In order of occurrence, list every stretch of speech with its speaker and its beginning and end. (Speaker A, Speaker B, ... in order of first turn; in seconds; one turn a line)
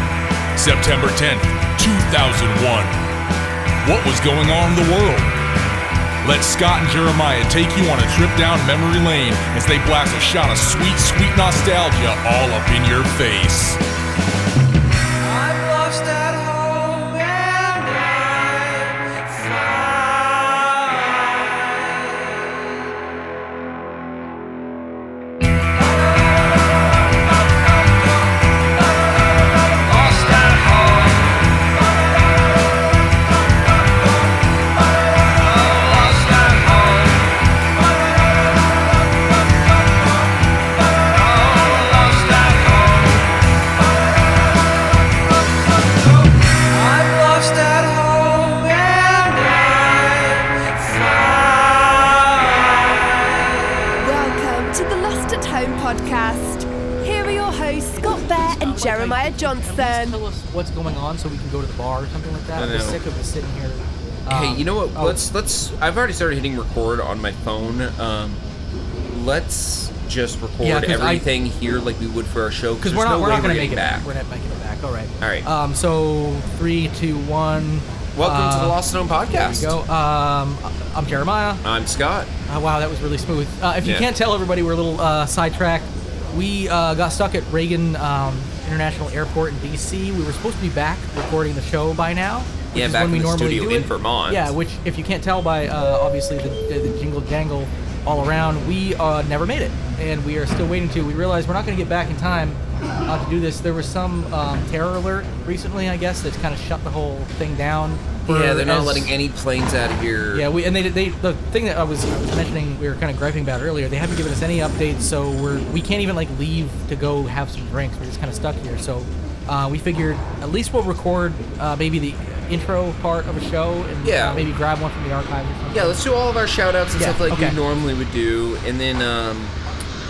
Speaker A: 0.6-3.0
Speaker A: 3.8-5.4
Speaker A: 6.2-13.8
Speaker B: 15.4-18.3
Speaker C: 29.8-31.4
Speaker C: 35.4-37.3
Speaker C: 42.0-42.5
Speaker B: 46.7-52.1
Speaker D: 54.0-60.2
Speaker E: 58.2-65.2
Speaker C: 62.5-63.0
Speaker C: 64.3-68.4
Speaker C: 69.1-74.1
Speaker E: 70.6-71.2
Speaker E: 72.8-78.8
Speaker C: 75.2-75.5
Speaker C: 78.2-79.8
Speaker E: 79.3-81.6
Speaker C: 81.6-82.3
Speaker E: 82.5-109.1
Speaker C: 83.8-84.1
Speaker C: 92.7-94.5
Speaker C: 108.2-110.5
Speaker E: 110.3-126.0
Speaker C: 124.0-124.5
Speaker C: 125.7-129.6
Speaker E: 127.0-127.5